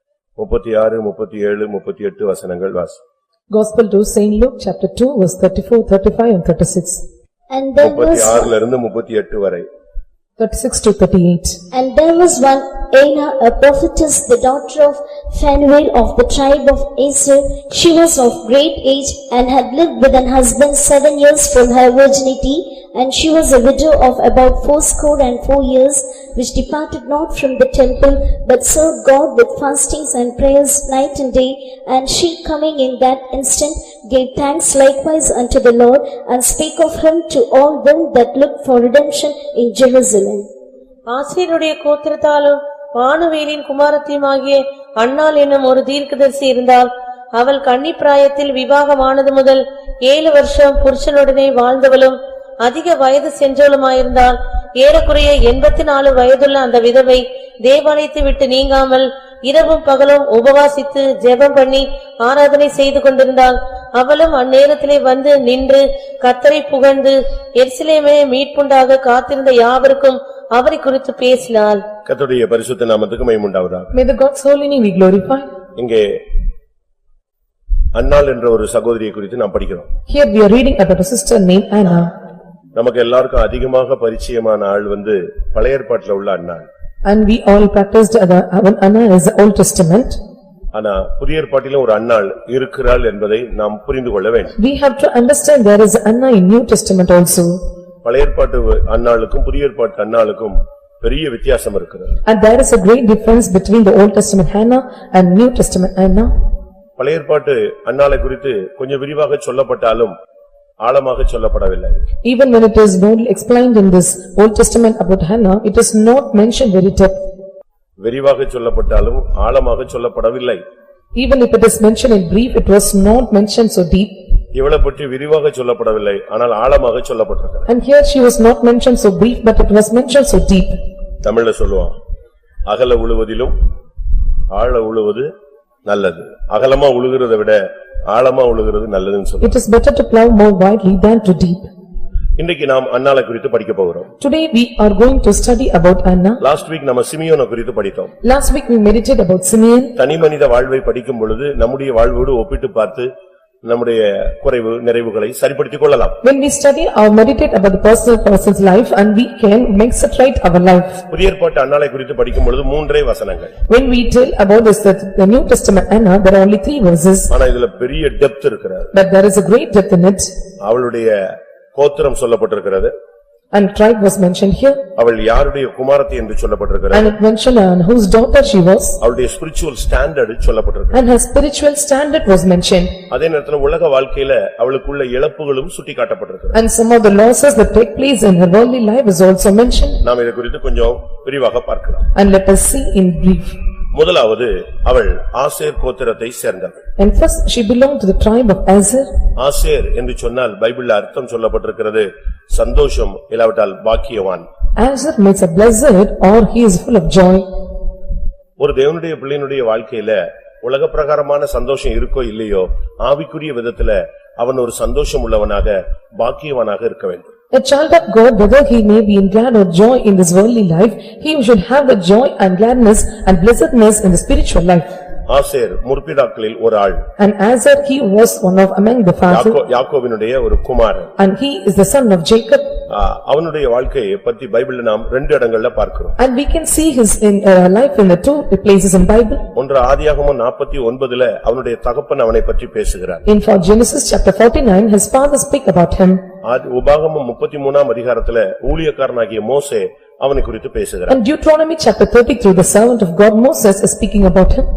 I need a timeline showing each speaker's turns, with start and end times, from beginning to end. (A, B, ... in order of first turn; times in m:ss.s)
0:00.4-0:03.0 A
0:03.5-0:07.0 B
0:07.5-0:08.5 C
0:07.8-0:09.6 A
0:10.4-0:11.6 B
0:11.7-0:40.5 C
0:41.1-1:11.8 D
1:12.0-1:13.9 A
1:13.9-1:15.5 B
1:15.8-1:16.2 A
1:17.9-1:19.9 A
1:20.1-1:22.1 B
1:22.8-1:26.7 A
1:27.0-1:30.2 B
1:30.7-1:34.5 A
1:34.6-1:37.6 B
1:38.0-1:42.2 A
1:42.2-1:46.3 B
1:47.0-1:50.1 A
1:50.8-1:52.0 A
1:52.2-1:57.2 B
1:58.0-2:00.6 A
2:01.2-2:04.2 B
2:04.5-2:07.7 A
2:07.7-2:10.8 B
2:11.2-2:11.9 A
2:12.7-2:13.6 A
2:14.5-2:15.3 A
2:15.9-2:19.5 A
2:19.4-2:21.7 B
2:22.4-2:24.1 A
2:24.2-2:26.4 B
2:26.4-2:28.1 A
2:28.2-2:29.9 B
2:30.0-2:33.1 A
2:33.6-2:36.2 A
2:36.2-2:41.0 B
2:41.1-2:43.5 A
2:43.7-2:47.3 B
2:47.3-2:48.9 A
2:48.9-2:50.3 B
2:50.6-2:52.9 A
2:53.5-2:54.8 B
2:55.0-2:57.2 A
2:56.9-2:59.0 B
2:59.0-3:01.0 A
3:00.9-3:02.9 B
3:03.1-3:06.6 A
3:06.5-3:10.0 B
3:10.0-3:12.1 A
3:12.1-3:13.6 B
3:13.9-3:16.8 A
3:17.0-3:19.1 B
3:19.4-3:24.4 A
3:24.8-3:27.5 B
3:28.6-3:37.3 A
3:37.5-3:44.9 B
3:45.3-3:47.0 A
3:47.2-3:49.6 B
3:49.3-3:51.1 A
3:51.2-3:52.7 B
3:52.9-3:56.2 A
3:56.2-3:59.4 B
3:59.5-4:03.2 A
4:03.2-4:06.2 B
4:06.4-4:11.2 A
4:11.1-4:14.6 B